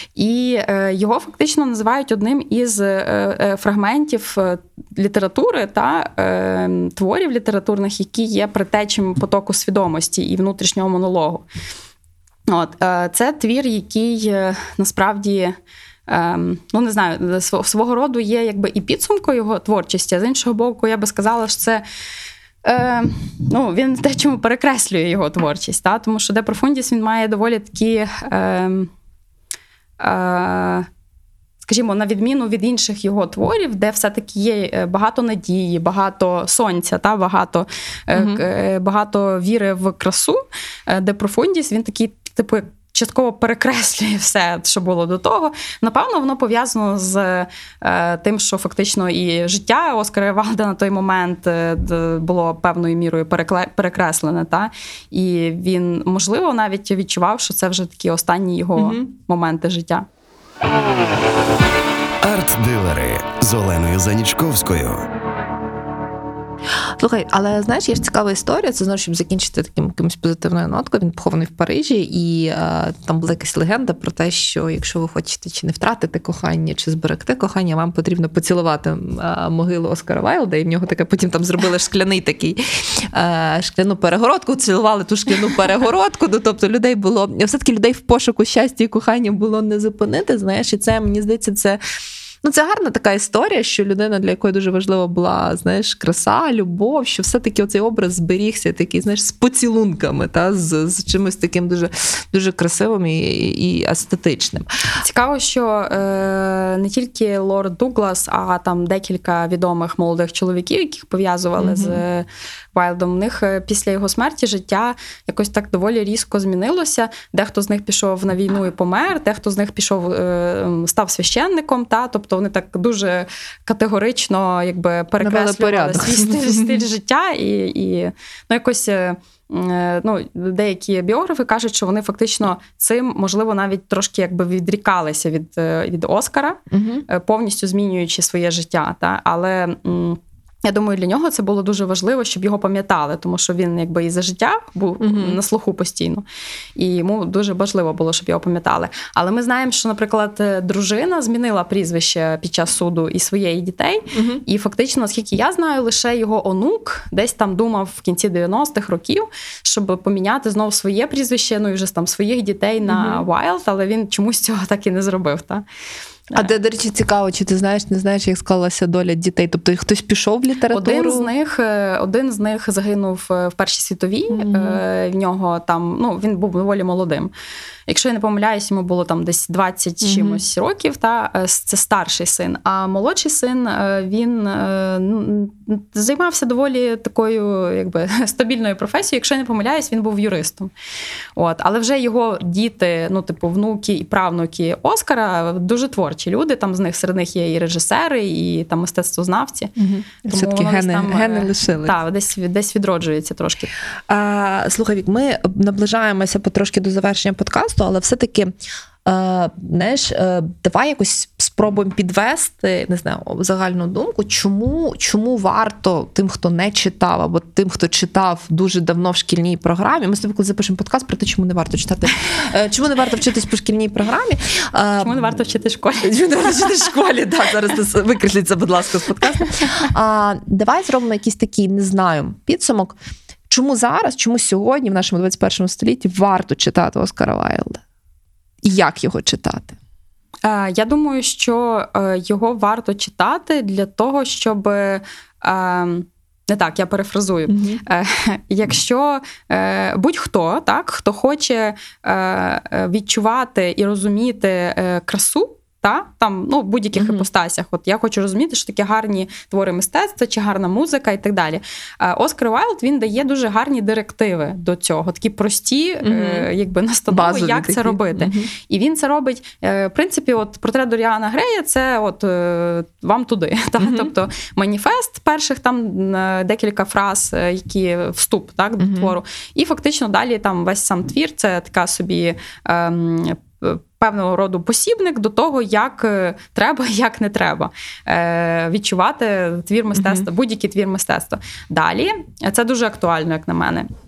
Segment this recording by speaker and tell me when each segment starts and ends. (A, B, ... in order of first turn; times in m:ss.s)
0:00.2-0:11.4 A
0:12.5-0:15.6 A
0:16.1-0:21.8 A
0:22.6-0:28.9 A
0:30.0-0:30.9 A
0:31.6-1:00.0 A
0:38.1-0:38.4 B
0:58.8-0:59.0 B
1:02.2-1:05.0 C
1:07.0-1:31.8 B
1:32.4-1:44.6 B
1:45.0-2:26.2 A
1:51.6-1:52.0 B
2:05.2-2:06.8 B
2:16.7-2:17.0 B
2:25.0-2:25.4 B
2:26.8-2:45.6 A
2:34.1-2:34.4 B
2:42.9-2:43.2 B
2:46.3-2:51.3 B
2:50.7-2:57.3 A
2:54.3-2:54.8 B
2:57.9-3:10.7 A
3:00.0-3:00.4 B
3:11.4-3:19.7 A
3:19.8-3:22.0 B
3:20.3-3:23.7 A
3:24.1-3:28.5 B
3:29.0-3:45.4 B
3:45.0-3:46.9 A
3:46.0-3:53.0 B
3:53.5-3:57.8 B
3:58.6-3:59.8 B
4:00.4-4:53.9 A
4:07.5-4:07.8 B
4:16.9-4:17.2 B
4:26.0-4:26.5 B
4:27.1-4:28.5 B
4:33.8-4:34.1 B
4:38.8-4:39.2 B
4:49.9-4:50.3 B